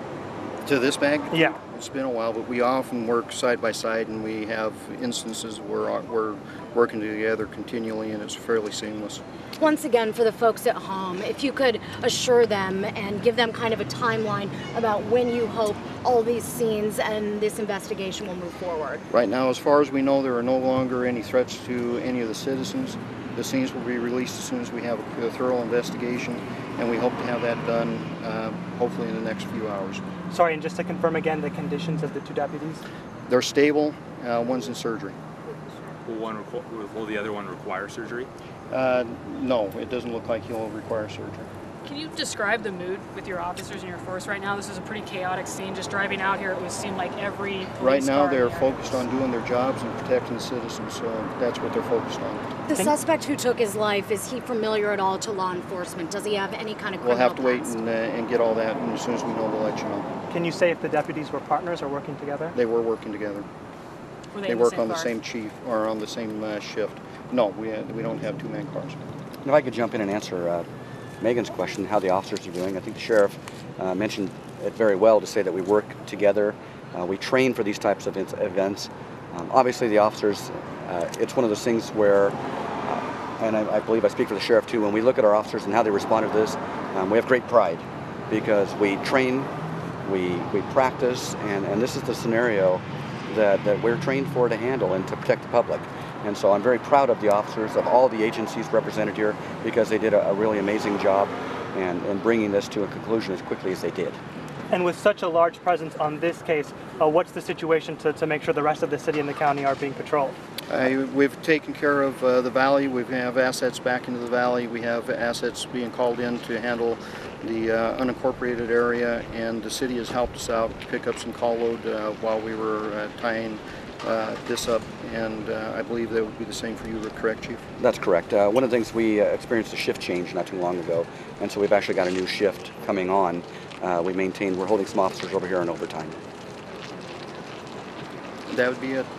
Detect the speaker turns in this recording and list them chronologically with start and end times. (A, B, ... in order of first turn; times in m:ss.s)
0:00.6-0:09.2 A
0:01.3-0:01.6 B
0:09.6-0:19.0 C
0:19.1-0:30.0 A
0:30.3-0:32.8 B
0:33.3-0:35.2 A
0:36.0-0:38.3 D
0:38.7-0:41.5 A
0:41.8-0:49.0 E
0:47.8-0:52.5 A
0:52.6-0:57.7 C
0:57.0-1:00.1 A
1:00.3-1:02.6 B
1:02.5-1:03.5 A
1:04.3-1:05.1 E
1:04.5-1:09.0 A
1:09.4-1:10.7 F
1:11.2-1:29.5 F
1:30.0-1:44.2 F
1:44.7-1:50.3 B
1:50.7-2:07.6 A
2:07.8-2:16.2 F
2:18.5-2:19.1 A